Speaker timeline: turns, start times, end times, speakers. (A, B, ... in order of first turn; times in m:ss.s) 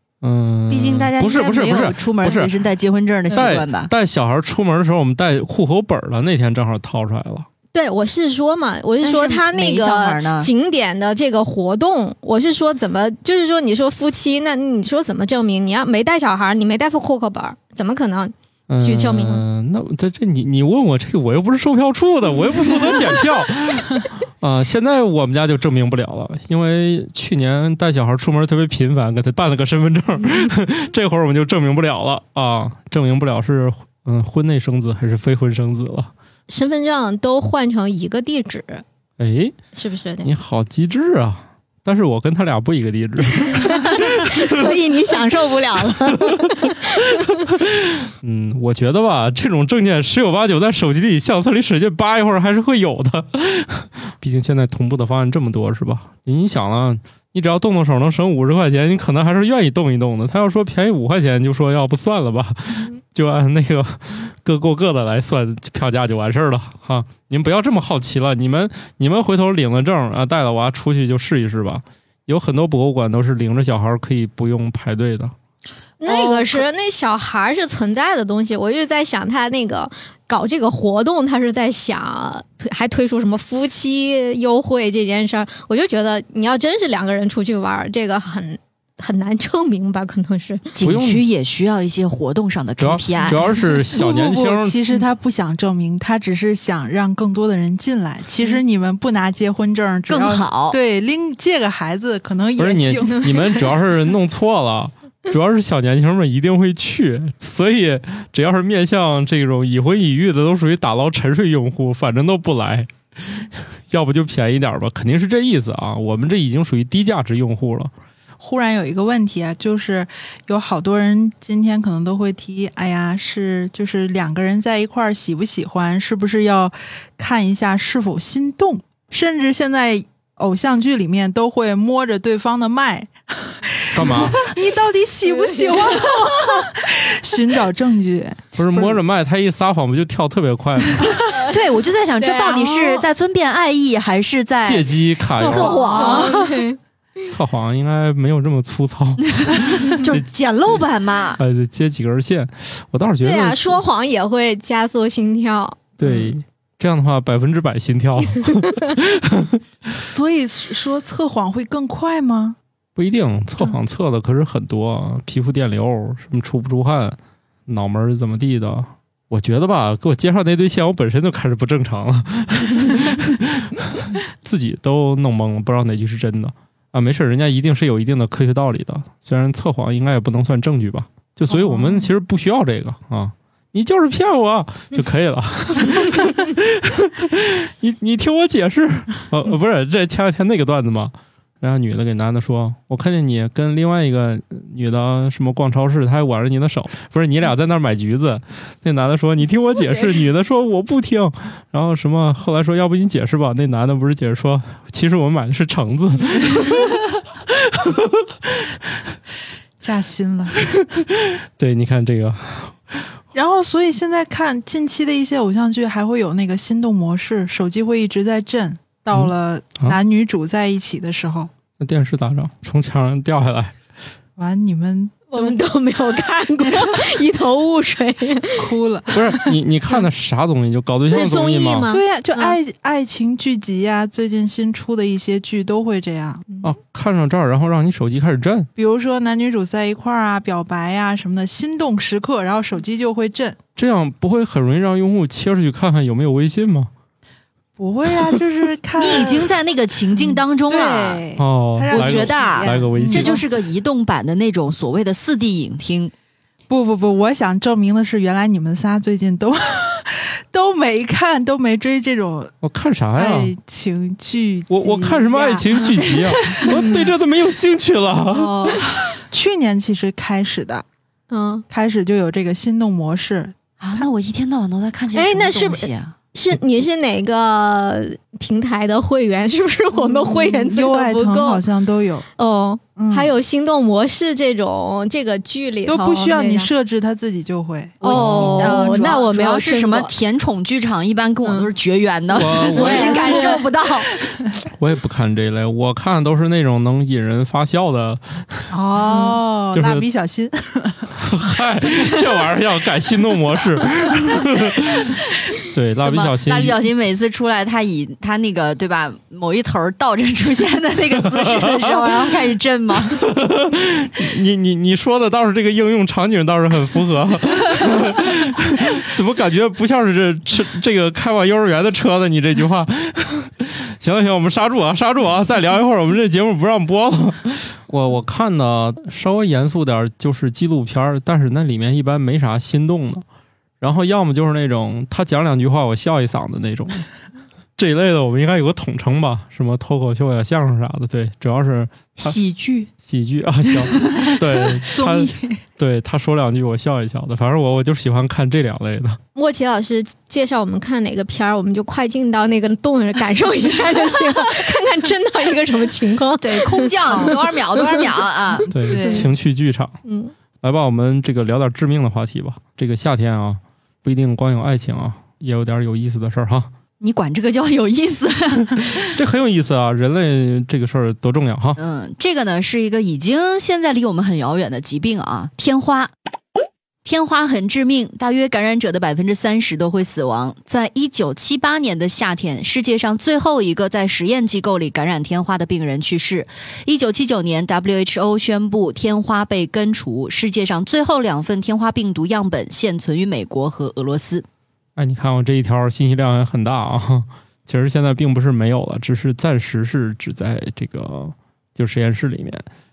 0:00.2-0:02.6 A
0:00.7-0:03.9 B
0:03.3-0:07.5 A
0:07.7-0:19.4 C
0:09.0-0:10.5 B
0:18.7-0:36.1 A
0:36.5-0:38.8 C
0:39.2-0:39.6 A
0:39.7-0:40.3 C
0:40.2-0:44.7 A
0:43.4-0:47.3 C
0:47.4-1:15.3 A
1:16.0-1:30.7 C
1:16.0-1:16.6 D
1:30.7-1:33.5 B
1:30.8-1:31.2 A
1:32.8-1:34.8 A
1:33.9-1:43.6 D
1:40.1-1:40.8 B
1:42.6-1:57.9 A
1:58.4-2:19.0 D
2:13.9-2:14.4 A
2:15.2-2:16.6 C
2:18.5-2:21.2 A
2:21.3-2:21.5 C
2:21.5-2:26.4 B
2:22.2-2:22.7 C
2:22.8-2:23.0 D
2:24.6-2:25.8 A
2:25.4-2:26.6 D
2:25.5-2:26.8 C
2:27.3-2:30.2 A
2:29.3-2:31.4 B
2:31.4-2:33.8 A
2:33.2-2:36.3 C
2:36.0-2:40.0 A
2:40.0-2:42.6 D
2:43.0-3:28.7 A
3:01.5-3:02.1 D
3:29.8-3:30.7 D
3:30.7-3:33.1 A
3:33.3-3:41.5 D
3:39.1-3:40.0 A
3:41.8-3:43.7 A
3:44.4-3:45.6 D
3:45.3-3:48.7 C
3:48.6-3:49.6 D
3:49.1-3:51.9 A
3:51.1-3:52.6 C
3:51.9-3:56.4 D
3:56.6-3:58.7 A
3:58.8-4:03.6 D
4:03.8-4:06.9 A
4:07.8-4:09.5 D
4:09.0-4:11.2 B
4:10.1-4:13.5 D
4:11.4-4:13.4 A
4:11.9-4:16.1 B
4:16.7-4:22.5 D
4:22.6-4:23.5 A
4:23.1-4:27.1 D
4:24.7-4:28.7 A
4:26.7-4:27.0 C
4:28.4-4:28.8 B
4:28.6-4:30.8 D
4:31.3-4:31.6 C
4:31.7-4:33.5 D
4:33.8-4:36.1 B
4:35.1-4:41.6 C
4:39.9-4:42.3 D
4:42.4-4:46.7 C
4:43.0-4:43.3 D
4:45.8-4:49.1 D
4:48.0-4:50.1 C
4:48.1-4:48.7 A
4:48.1-4:54.2 B
4:52.3-4:53.3 A
4:52.4-4:53.6 D
4:52.6-4:54.0 C
4:54.8-4:58.7 A
4:58.7-5:01.1 D
4:59.1-4:59.4 C
4:59.7-5:00.0 A
5:01.2-5:06.8 A
5:06.0-5:13.2 B
5:11.2-5:12.3 A
5:13.1-5:33.2 A
5:33.8-5:37.0 A
5:37.8-5:42.4 A
5:42.2-5:42.9 B
5:43.0-5:49.2 A
5:43.8-5:44.3 B
5:44.2-5:45.6 D
5:49.3-5:58.0 C
5:56.4-5:58.7 B
5:58.7-6:00.0 A
5:58.8-5:59.3 D
6:00.0-6:00.3 C
6:00.6-6:06.7 A
6:07.0-6:09.2 B
6:09.1-6:11.8 A
6:11.8-6:16.1 B
6:17.0-6:34.4 B
6:35.0-6:42.6 A